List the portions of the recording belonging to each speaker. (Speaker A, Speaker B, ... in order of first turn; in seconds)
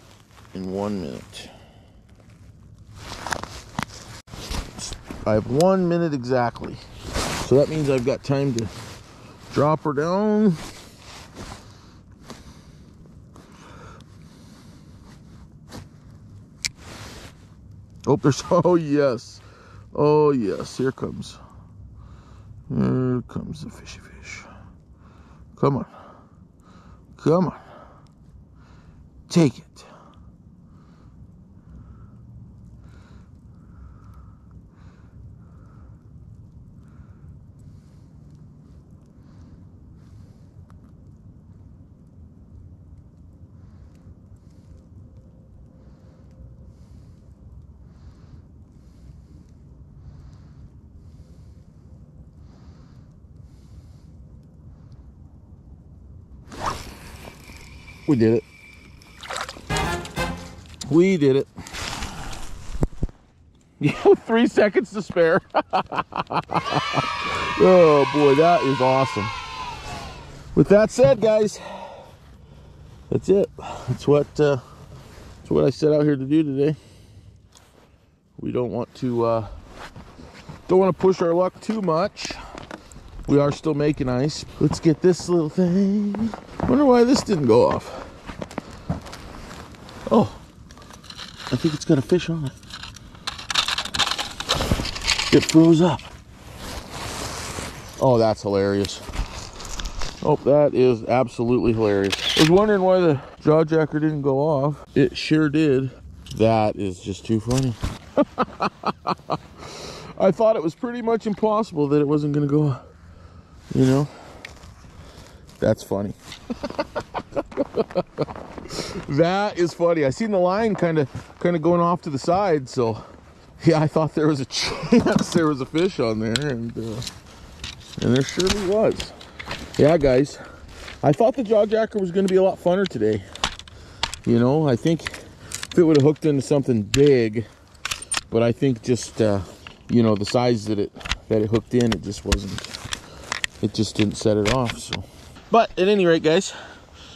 Speaker A: 0.5-1.5, 4.8-6.8, 7.3-8.7, 9.5-10.6, 18.1-21.4, 22.7-24.5, 25.5-25.9, 27.1-27.6, 29.3-29.9, 58.0-58.4, 60.9-61.9, 63.8-69.3, 70.5-72.0, 73.1-74.6, 75.4-76.8, 78.4-79.5, 80.7-82.4, 83.2-88.1, 90.1-90.4, 91.5-92.5, 95.3-96.1, 98.0-99.1, 100.2-112.8, 113.7-114.1, 115.6-123.1, 123.6-127.1, 128.0-129.2, 129.8-130.4, 131.0-133.2, 134.2-135.1, 135.7-137.5, 138.3-142.8, 143.6-146.6